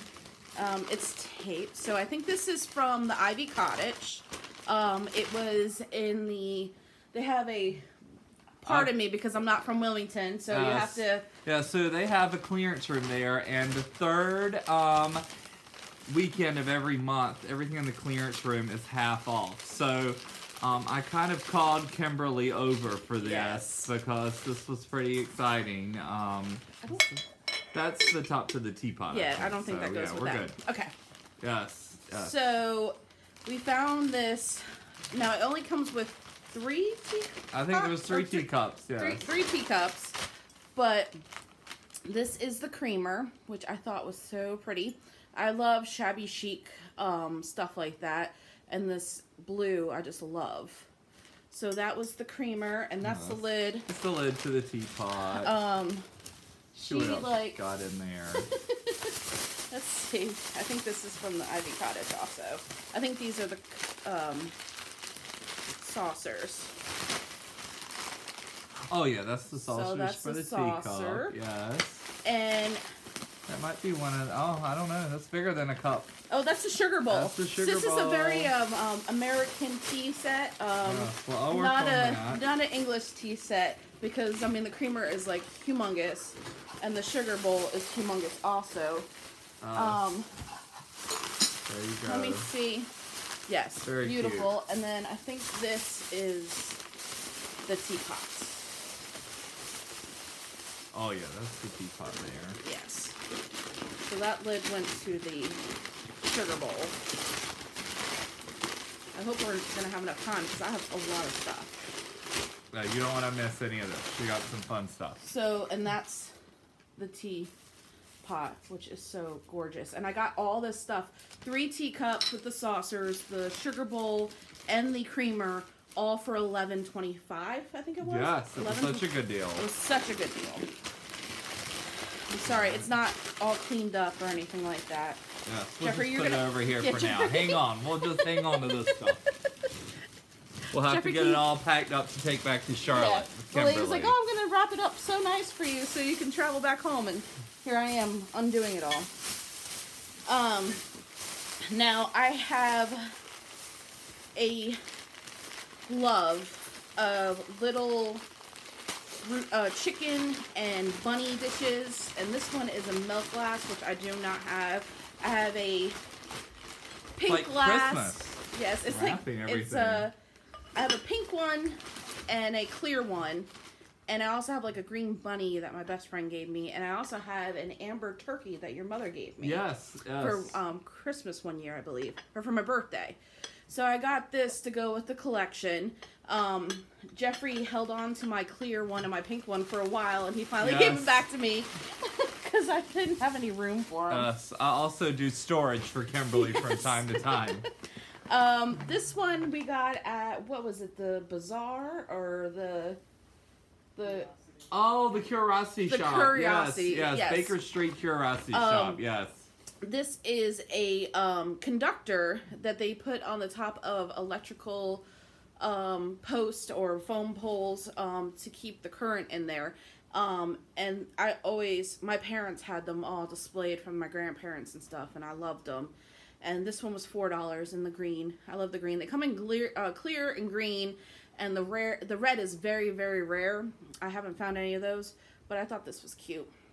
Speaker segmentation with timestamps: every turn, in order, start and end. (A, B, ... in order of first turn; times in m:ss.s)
0:00.5-0:07.9 A
0:08.6-0:11.3 A
0:08.6-0:08.9 B
0:10.5-0:15.2 B
0:16.1-0:27.0 B
0:23.2-0:23.9 A
0:26.8-0:27.1 A
0:27.7-0:30.6 B
0:29.1-0:30.9 A
0:31.4-0:32.3 B
0:32.1-0:40.2 A
0:37.5-0:39.3 B
0:40.7-0:41.2 A
0:42.0-0:50.9 A
0:51.5-0:53.9 A
0:53.0-0:55.5 B
0:55.3-0:56.0 A
0:56.7-0:57.6 A
0:56.8-0:58.5 B
0:58.4-0:59.1 A
0:59.7-1:04.5 A
1:05.7-1:06.7 A
1:08.9-1:12.1 B
1:09.5-1:11.3 A
1:12.2-1:12.8 A
1:13.5-1:16.1 B
1:16.3-1:29.1 A
1:17.1-1:18.5 B
1:20.8-1:22.4 B
1:29.6-1:30.0 B
1:29.7-1:30.3 A
1:31.6-1:32.5 B
1:32.0-1:32.9 A
1:33.5-1:36.8 A
1:33.8-1:34.5 B
1:37.6-1:38.6 A
1:40.9-1:42.6 B
1:42.6-1:43.2 A
1:44.0-1:45.6 A
1:46.2-1:47.0 A
1:49.1-1:51.8 A
1:52.7-1:55.2 B
1:55.2-1:56.3 A
1:57.0-1:57.5 A
1:58.2-2:10.7 A
2:08.0-2:09.7 B
2:12.3-2:15.2 A
2:12.5-2:12.8 B
2:15.4-2:19.2 B
2:15.8-2:18.7 A
2:20.7-2:24.1 B
2:20.8-2:21.4 A
2:22.8-2:29.1 A
2:30.2-2:30.8 A
2:31.6-2:33.2 A
2:34.3-2:34.8 A
2:35.9-2:38.2 A
2:39.2-2:46.0 A
2:47.2-2:50.1 A
2:47.2-2:50.1 B
2:50.7-2:53.5 A
2:54.1-3:14.3 A
2:59.4-3:00.6 B
3:10.6-3:11.2 B
3:14.1-3:17.6 B
3:16.3-3:17.6 A
3:18.3-3:23.0 A
3:24.0-3:24.3 A
3:24.7-3:29.5 B
3:25.9-3:27.6 A
3:28.5-3:29.0 A
3:29.8-3:35.0 A
3:35.6-3:56.5 A